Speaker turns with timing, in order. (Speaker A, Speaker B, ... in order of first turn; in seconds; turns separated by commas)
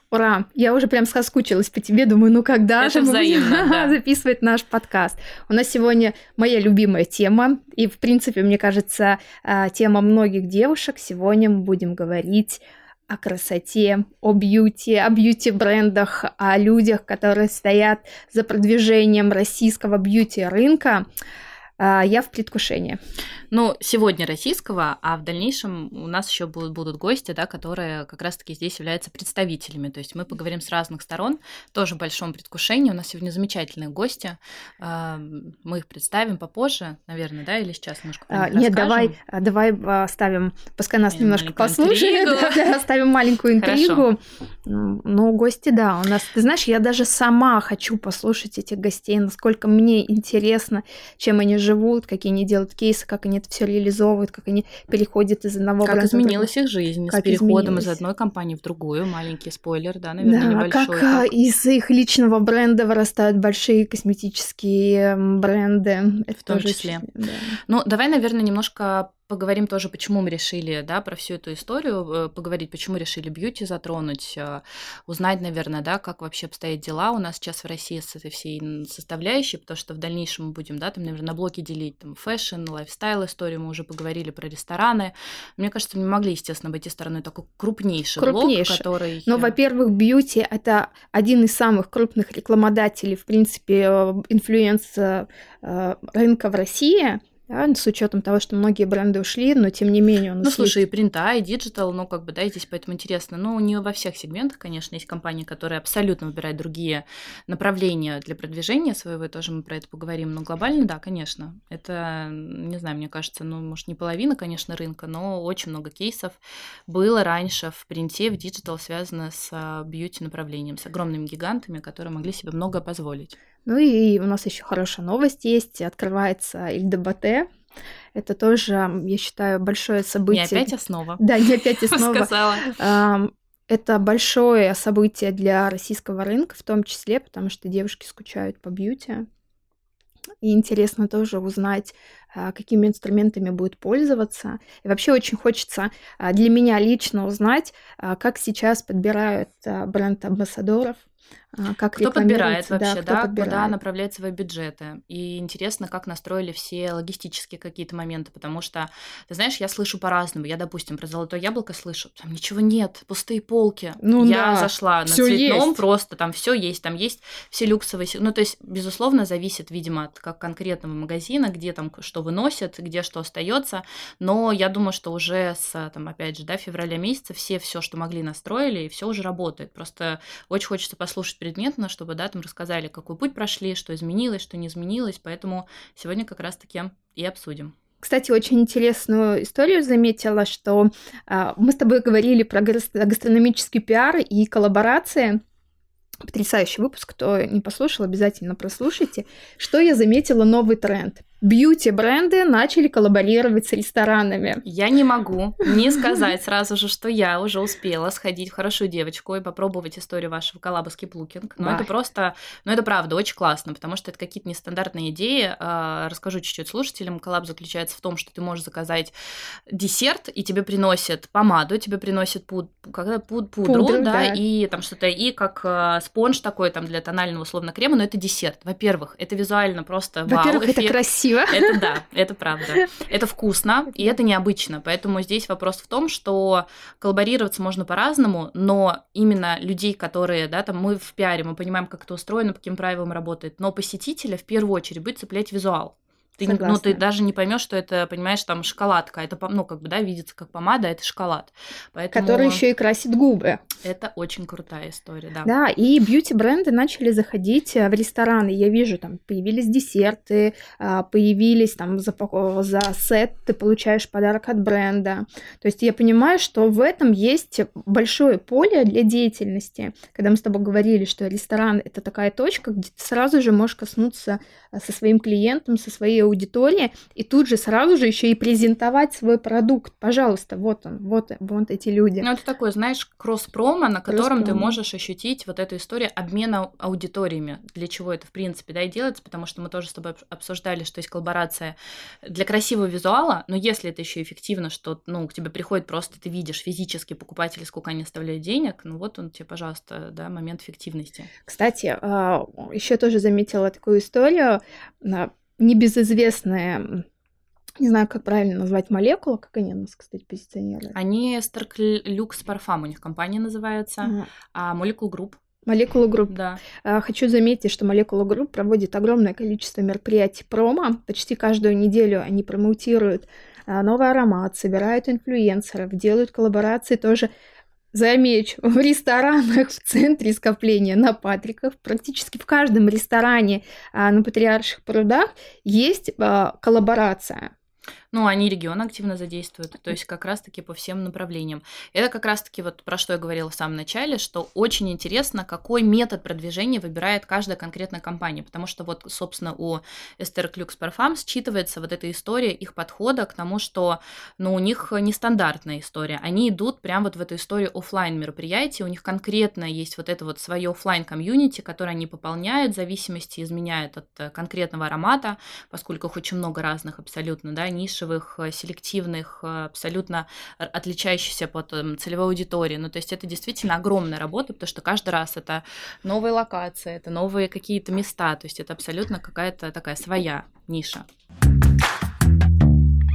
Speaker A: 0.1-21.1, Speaker B: 2.8-4.0, Speaker A: 21.8-23.0, Speaker B: 23.5-39.1, Speaker A: 38.3-56.5, Speaker B: 41.1-42.8, Speaker B: 43.6-44.0, Speaker B: 55.8-61.3, Speaker A: 57.1-58.0, Speaker A: 60.2-67.6, Speaker B: 66.4-67.0, Speaker B: 67.7-89.5, Speaker A: 88.2-100.8, Speaker B: 100.4-123.3, Speaker A: 123.6-127.5, Speaker A: 128.1-139.2, Speaker B: 130.3-132.7, Speaker A: 140.4-151.0, Speaker A: 151.5-153.7, Speaker B: 151.9-187.7, Speaker A: 164.0-165.8, Speaker A: 188.0-195.4, Speaker A: 196.2-204.6, Speaker B: 204.6-219.1, Speaker A: 211.6-211.9, Speaker B: 219.7-252.6, Speaker A: 223.6-224.4, Speaker A: 230.3-231.8, Speaker A: 246.4-247.0, Speaker A: 252.1-253.6, Speaker B: 253.8-255.5, Speaker A: 255.4-282.3, Speaker B: 282.2-301.3, Speaker A: 284.1-284.8, Speaker A: 301.5-307.0, Speaker A: 307.8-310.9, Speaker B: 310.9-315.4, Speaker A: 314.0-314.3, Speaker A: 315.6-327.3, Speaker B: 316.3-316.6, Speaker A: 327.9-337.5, Speaker B: 338.1-381.0